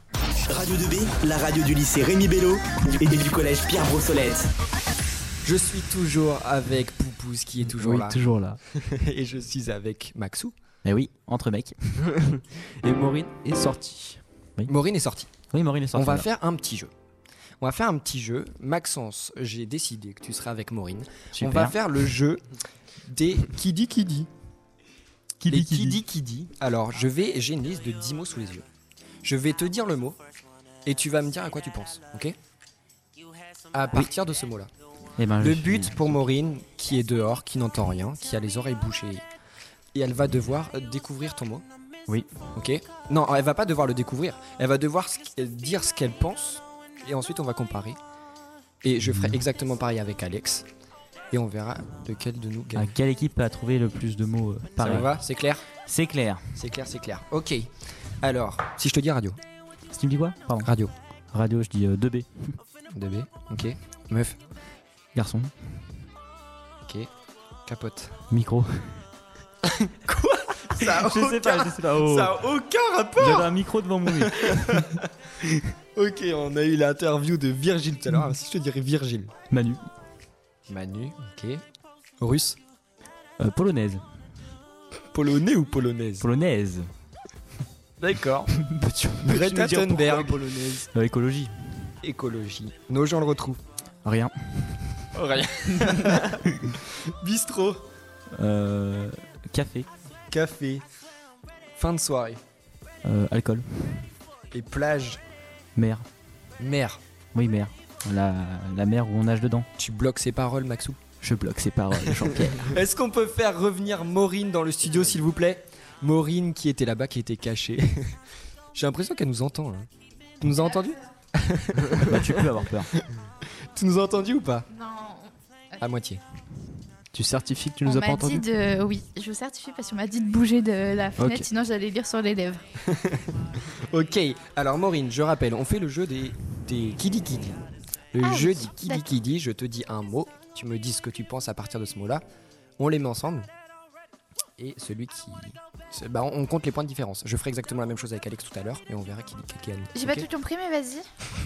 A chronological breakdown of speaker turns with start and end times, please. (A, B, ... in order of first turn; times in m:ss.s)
0:00.5-0:04.5 A
0:05.4-0:08.2 B
0:07.8-0:08.6 C
0:08.7-0:10.6 B
0:10.8-0:11.8 D
0:12.0-0:14.2 C
0:14.7-0:15.3 B
0:15.5-0:16.3 D
0:15.9-0:16.9 B
0:17.6-0:22.4 B
0:21.4-0:21.7 D
0:23.0-0:24.3 B
0:25.4-0:26.0 D
0:25.5-0:28.7 B
0:29.2-0:30.2 B
0:30.8-0:32.4 B
0:33.7-0:34.7 B
0:35.2-0:36.2 D
0:35.4-0:39.2 B
0:39.9-0:41.6 B
0:42.6-0:48.0 B
0:48.8-0:50.7 B
0:51.3-0:52.9 B
0:52.8-0:55.2 D
0:54.8-0:55.7 B
0:55.9-0:56.4 D
0:56.6-0:59.4 B
0:59.9-1:00.7 D
1:00.6-1:00.9 B
1:01.3-1:02.5 D
1:02.9-1:04.4 B
1:05.2-1:05.5 D
1:06.8-1:07.1 B
1:07.7-1:08.2 B
1:08.3-1:09.0 D
1:09.8-1:13.5 B
1:10.8-1:12.4 D
1:13.2-1:15.0 D
1:14.1-1:14.8 B
1:15.9-1:19.3 B
1:19.5-1:19.8 D
1:20.7-1:21.6 B
1:22.2-1:22.6 B
1:23.4-1:24.0 D
1:25.1-1:26.3 B
1:26.2-1:26.9 D
1:28.0-1:28.5 B
1:28.6-1:29.0 D
1:29.1-1:30.9 C
1:29.2-1:30.4 B
1:30.9-1:31.9 D
1:32.0-1:33.6 B
1:34.0-1:35.1 D
1:35.1-1:36.4 B
1:37.1-1:37.8 B
1:38.4-1:39.9 D
1:40.3-1:40.8 B
1:41.8-1:42.4 B
1:43.0-1:44.1 D
1:44.5-1:45.2 B
1:45.8-1:46.1 D
1:46.6-1:47.0 B
1:47.4-1:49.7 D
1:49.8-1:51.0 B
1:51.2-1:52.7 D
1:52.2-1:58.2 B
1:58.7-1:59.9 B
2:00.4-2:02.5 B
2:02.0-2:02.9 D
2:03.5-2:04.7 B
2:04.7-2:05.8 E
2:05.8-2:06.2 B
2:07.1-2:08.5 C
2:07.8-2:12.6 E
2:11.2-2:11.5 C
2:12.8-2:17.6 B
2:18.1-2:22.2 B
2:18.2-2:19.1 E
2:22.8-2:23.5 B
2:24.6-2:30.3 B
2:29.9-2:31.1 E